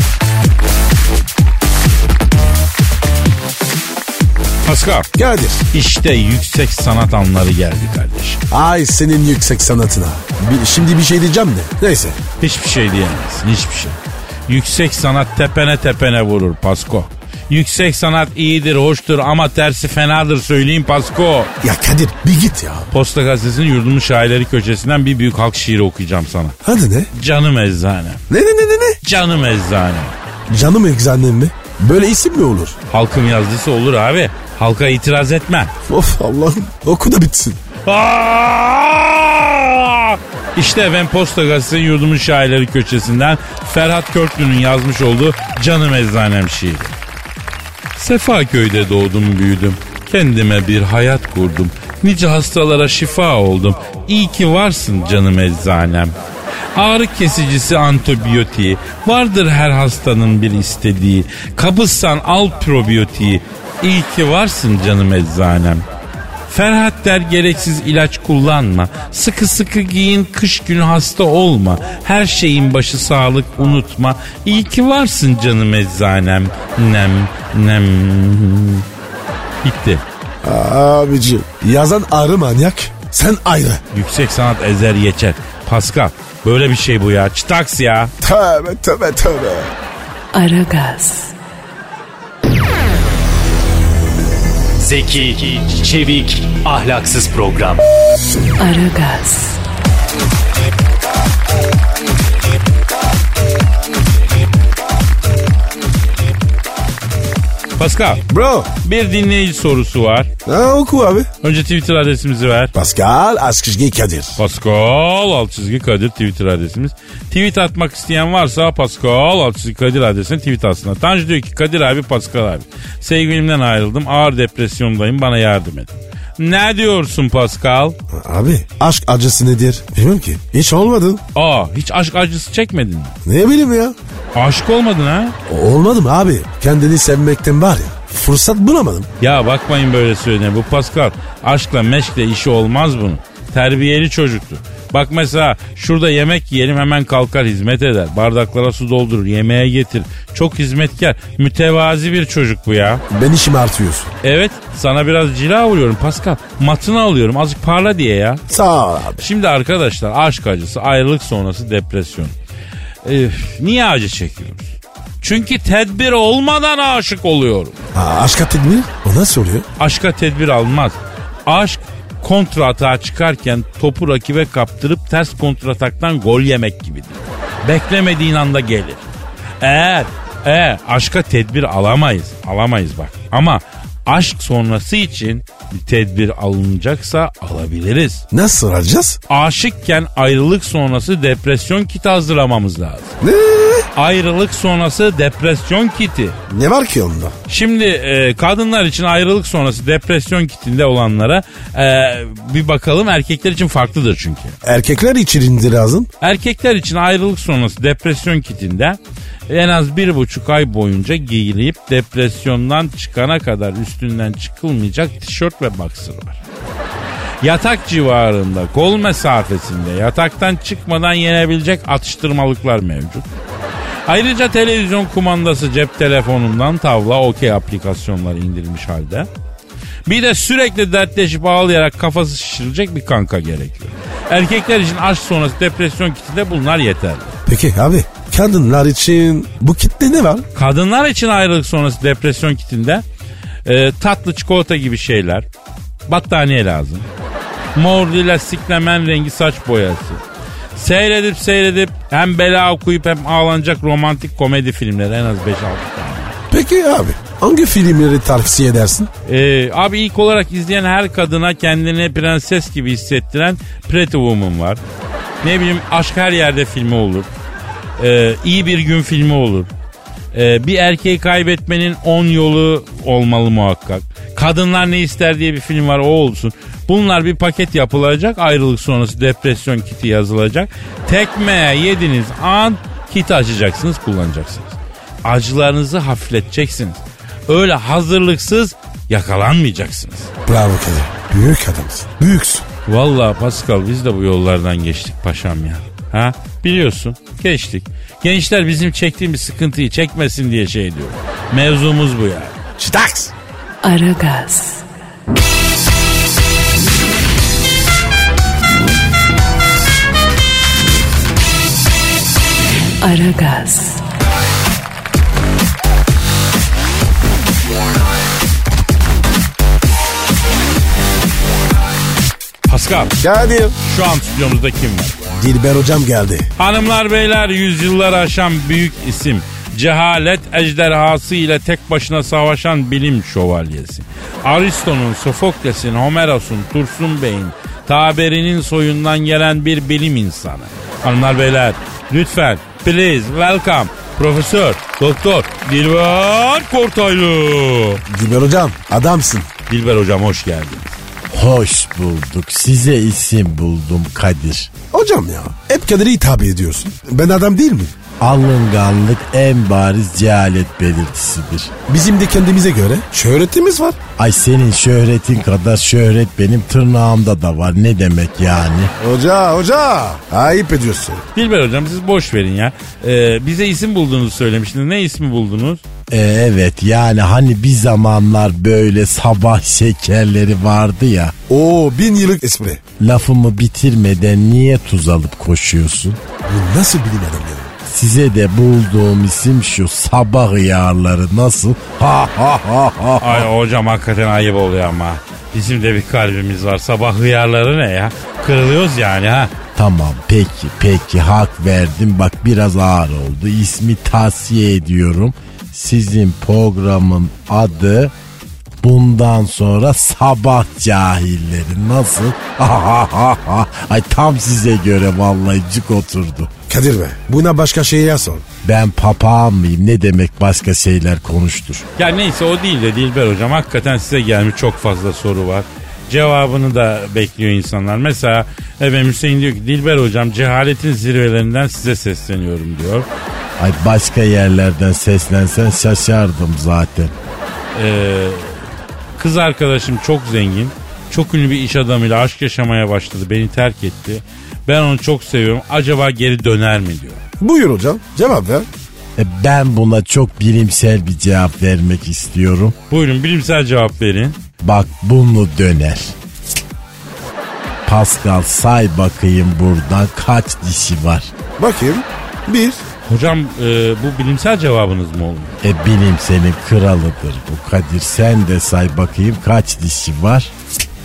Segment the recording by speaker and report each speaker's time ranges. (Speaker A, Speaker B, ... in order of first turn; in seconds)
Speaker A: 4.6-5.1, 5.7-8.4, 12.4-21.5, 22.9-26.6, 27.1-28.2, 29.0-30.1, 32.9-35.7, 37.8-46.9, 47.9-56.1, 56.7-65.8, 66.5-78.8, 79.6-80.0, 83.9-88.1, 107.8-108.2, 108.8-110.3, 111.4-112.7, 114.4-128.0, 131.3-133.1, 134.3-135.3, 139.2-153.0, 154.2-158.4, 159.2-162.3, 163.0-167.8, 169.8-179.0, 179.6-188.2, 189.3-193.1, 193.9-196.4, 197.5-204.6, 206.2-216.4, 217.4-223.3, 224.1-229.3, 230.1-237.4, 240.5-243.0, 243.6-245.4, 246.1-247.1, 247.7-250.2, 250.8-256.4, 259.2-264.8, 265.4-267.3, 268.0-269.7, 270.3-290.3, 292.9-302.6, 322.7-323.1, 323.8-325.2, 326.6-348.0, 349.7-350.9, 371.3-375.8, 393.2-399.5, 422.0-433.1, 437.7-438.6, 439.2-447.2, 452.9-454.4, 463.0-465.6
Speaker B: 5.1-5.6, 8.5-12.2, 21.6-22.9, 26.6-27.1, 28.3-29.0, 30.5-32.7, 35.9-37.6, 80.4-83.8, 88.2-89.7, 108.3-108.7, 110.5-111.3, 112.7-114.4, 128.1-131.2, 133.2-133.9, 135.4-139.1, 153.1-154.1, 158.5-159.2, 167.9-169.7, 188.3-189.2, 193.2-193.9, 196.5-197.3, 204.6-206.1, 237.4-240.4, 256.5-259.1, 290.4-292.6, 302.8-303.3, 323.2-323.7, 325.3-326.5, 348.1-349.5, 354.9-357.9, 361.9-364.0, 369.0-371.2, 381.5-382.8, 386.4-387.7, 416.7-418.5, 447.4-448.7, 461.6-462.8
Speaker C: 90.3-91.3, 98.5-99.6, 303.8-304.8, 313.0-314.0
Speaker D: 94.8-97.8
Speaker E: 351.3-354.7, 358.2-361.7, 364.1-368.9, 376.1-381.3, 383.0-386.2, 387.8-393.5, 399.7-408.1, 408.8-416.5, 418.6-421.8, 433.6-437.1, 449.1-452.7, 454.6-456.1, 457.9-461.3, 465.6-470.5